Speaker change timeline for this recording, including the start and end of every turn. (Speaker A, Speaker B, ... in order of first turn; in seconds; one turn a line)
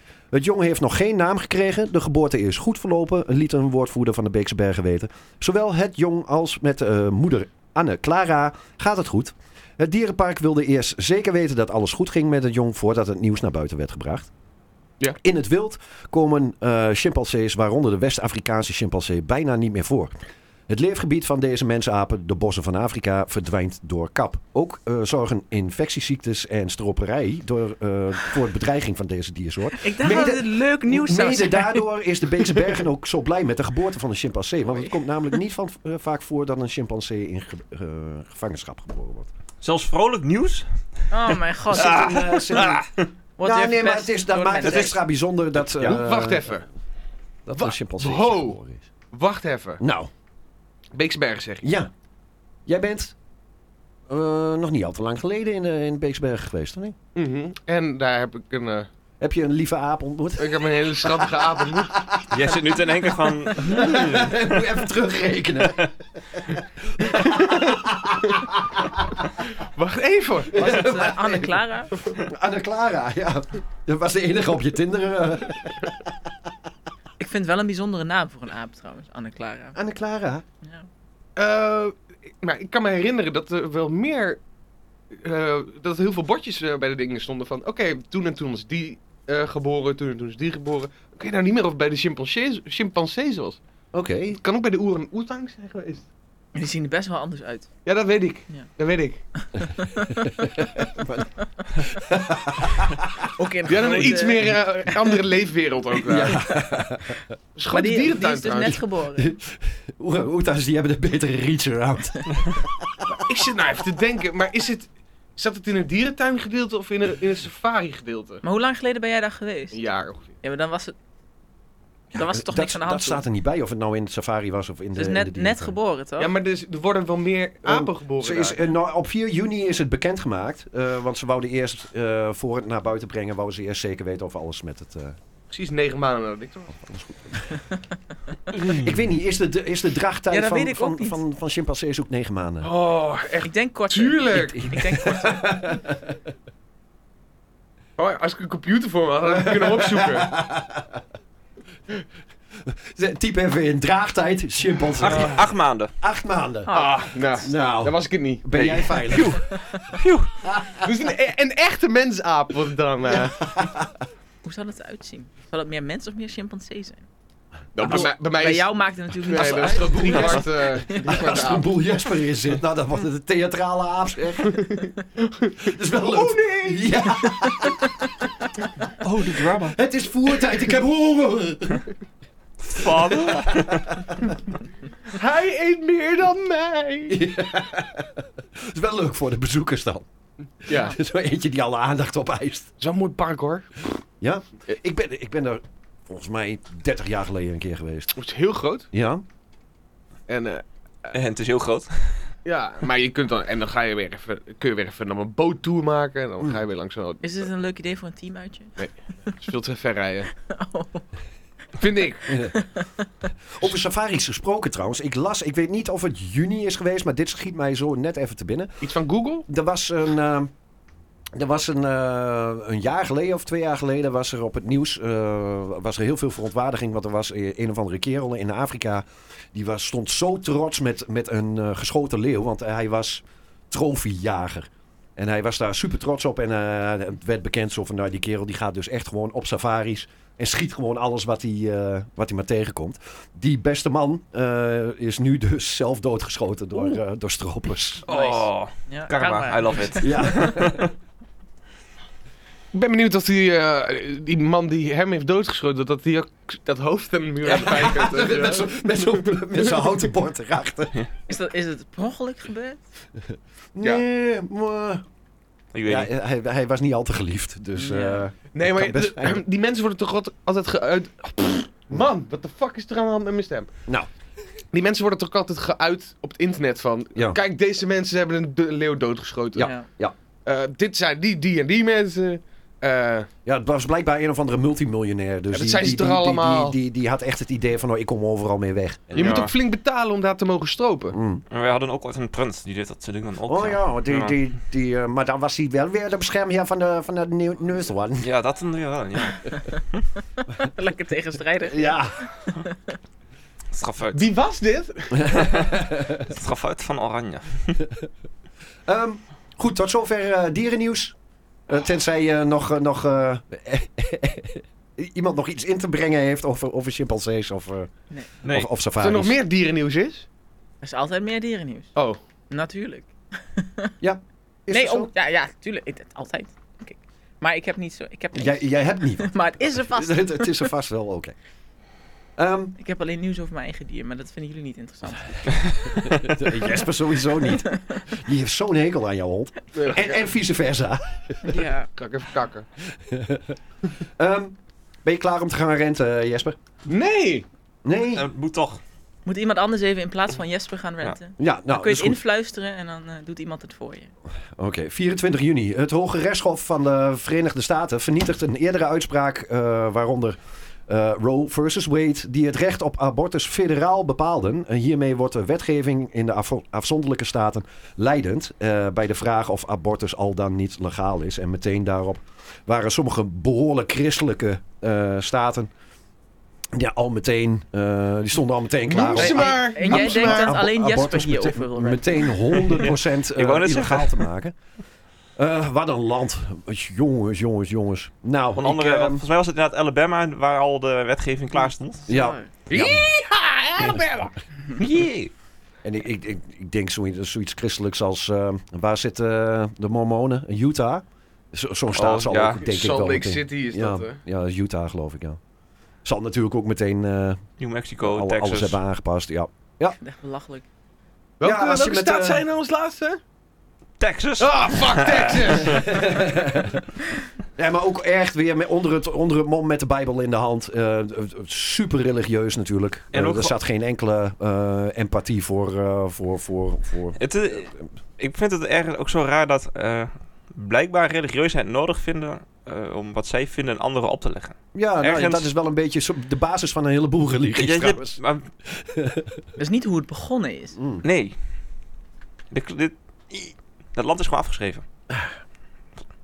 Speaker A: 0.3-14.3
Speaker A: 15.2-20.1
Speaker A: 20.7-39.3
Speaker B: 29.8-31.9
Speaker C: 39.6-41.9
Speaker B: 41.1-42.6
Speaker A: 41.7-42.9
Speaker C: 42.5-42.8
Speaker B: 43.4-45.0
Speaker A: 43.4-46.5
Speaker D: 45.8-46.6
Speaker A: 47.5-48.8
Speaker D: 47.6-48.6
Speaker D: 49.1-49.8
Speaker A: 49.8-50.1
Speaker D: 50.9-51.7
Speaker A: 51.6-51.9
Speaker A: 52.6-53.1
Speaker A: 54.1-57.0
Speaker D: 57.1-58.9
Speaker A: 59.2-62.6
Speaker D: 60.4-61.9
Speaker C: 62.3-64.8
Speaker A: 63.6-69.2
Speaker C: 65.6-65.9
Speaker D: 67.1-67.7
Speaker D: 69.6-70.6
Speaker A: 70.5-76.1
Speaker B: 70.5-71.9
Speaker B: 77.2-79.8
Speaker A: 79.7-80.4
Speaker D: 81.3-84.4
Speaker D: 85.1-93.6
Speaker A: 93.9-94.4
Speaker D: 94.3-96.0
Speaker B: 96.5-97.7
Speaker D: 97.8-99.2
Speaker B: 99.4-100.4
Speaker A: 100.4-103.2
Speaker B: 103.4-104.6
Speaker D: 103.7-106.4
Speaker A: 106.0-107.2
Speaker D: 107.5-108.8
Speaker B: 107.7-109.3
Speaker A: 108.7-113.2
Speaker D: 113.2-118.4
Speaker B: 118.4-119.8
Speaker D: 119.7-120.3
Speaker B: 120.4-120.9
Speaker A: 122.1-125.8
Speaker B: 122.1-123.2
Speaker B: 124.9-126.3
Speaker D: 126.2-128.6
Speaker A: 127.6-135.2
Speaker D: 135.5-136.8
Speaker A: 136.8-137.5
Speaker C: 138.5-138.9
Speaker A: 138.6-142.7
Speaker B: 140.3-141.2
Speaker D: 142.6-144.7
Speaker B: 143.4-145.5
Speaker A: 144.3-146.1
Speaker D: 148.0-150.3
Speaker A: 149.3-151.0
Speaker A: 152.7-155.5
Speaker C: 155.0-155.9
Speaker A: 156.0-156.8
Speaker B: 156.7-157.0
Speaker D: 156.7-158.7
Speaker A: 157.4-159.4
Speaker C: 158.5-160.3
Speaker A: 160.4-160.8
Speaker D: 160.8-163.4
Speaker A: 163.1-163.9
Speaker B: 164.4-167.1
Speaker D: 167.7-171.7
Speaker B: 167.8-171.2
Speaker A: 169.3-170.4
Speaker A: 171.0-174.6
Speaker D: 174.6-177.2
Speaker A: 175.6-177.9
Speaker C: 179.0-179.8
Speaker A: 179.6-181.9
Speaker C: 182.6-184.0
Speaker A: 182.8-184.1
Speaker D: 185.1-187.2
Speaker A: 187.1-190.1
Speaker D: 190.6-190.9
Speaker A: 190.7-192.7
Speaker D: 192.8-193.7
Speaker A: 194.2-198.1
Speaker D: 198.2-198.9
Speaker A: 198.9-199.2
Speaker D: 200.3-201.2
Speaker C: 201.1-202.3
Speaker D: 202.4-207.2
Speaker B: 207.2-209.3
Speaker D: 208.8-210.3
Speaker B: 210.4-211.0
Speaker D: 211.8-212.4
Speaker A: 212.3-212.5
Speaker B: 212.5-213.0
Speaker A: 213.5-218.9
Speaker D: 218.8-219.4
Speaker A: 219.5-220.5
Speaker A: 221.3-248.0
Speaker C: 248.1-250.9
Speaker B: 248.1-250.3
Speaker A: 250.0-250.8
Speaker D: 252.7-259.9
Speaker A: 257.5-260.9
Speaker B: 261.3-262.8
Speaker A: 263.7-265.0
Speaker C: 265.7-266.1
Speaker A: 265.9-269.4
Speaker B: 267.8-268.2
Speaker D: 268.5-273.7
Speaker D: 274.7-279.7
Speaker A: 279.5-280.1
Speaker B: 279.6-279.9
Speaker D: 280.4-283.3
Speaker A: 283.4-289.5
Speaker D: 285.5-286.8
Speaker C: 289.1-289.5
Speaker D: 289.1-291.2
Speaker A: 291.1-291.4
Speaker C: 291.5-294.4
Speaker A: 293.5-298.3
Speaker C: 298.2-300.0
Speaker B: 300.5-302.9
Speaker A: 301.7-302.2
Speaker C: 303.7-304.3
Speaker D: 304.1-305.4
Speaker A: 305.2-306.2
Speaker C: 305.4-307.8
Speaker A: 308.9-311.1
Speaker A: 311.7-317.9
Speaker C: 318.4-318.7
Speaker A: 318.4-319.4
Speaker D: 319.0-320.2
Speaker B: 320.8-321.9
Speaker B: 322.5-323.9
Speaker A: 324.0-325.1
Speaker B: 324.7-330.7
Speaker A: 328.3-331.3
Speaker A: 332.4-332.8
Speaker B: 332.8-335.7
Speaker A: 335.8-341.6
Speaker B: 337.6-338.0
Speaker D: 339.7-340.2
Speaker B: 341.5-341.9
Speaker D: 341.9-342.7
Speaker A: 343.0-343.5
Speaker A: 344.2-346.6
Speaker D: 346.9-347.4
Speaker A: 347.8-348.2
Speaker C: 348.1-348.8
Speaker B: 349.2-354.1
Speaker A: 351.4-352.2
Speaker A: 354.6-375.7
Speaker A: 376.7-384.5
Speaker D: 378.9-380.6
Speaker B: 379.1-382.6
Speaker C: 382.6-384.2
Speaker A: 385.4-389.2
Speaker C: 388.6-392.1
Speaker A: 392.1-393.1
Speaker B: 392.1-392.5
Speaker D: 392.7-394.3
Speaker C: 394.8-395.3
Speaker A: 395.8-405.4
Speaker C: 401.9-402.6
Speaker D: 402.6-404.2
Speaker A: 406.0-407.4
Speaker C: 407.6-408.8
Speaker A: 408.0-410.0
Speaker B: 410.0-410.6
Speaker D: 411.4-413.2
Speaker A: 411.4-412.4
Speaker C: 414.0-415.9
Speaker D: 414.4-416.0
Speaker A: 415.6-416.8
Speaker A: 417.6-427.7
Speaker C: 423.1-423.6
Speaker C: 427.2-435.5
Speaker A: 434.7-438.2
Speaker C: 437.6-438.4
Speaker A: 438.7-439.4
Speaker B: 439.6-440.8
Speaker A: 440.8-441.0
Speaker C: 441.0-441.3
Speaker C: 442.5-444.8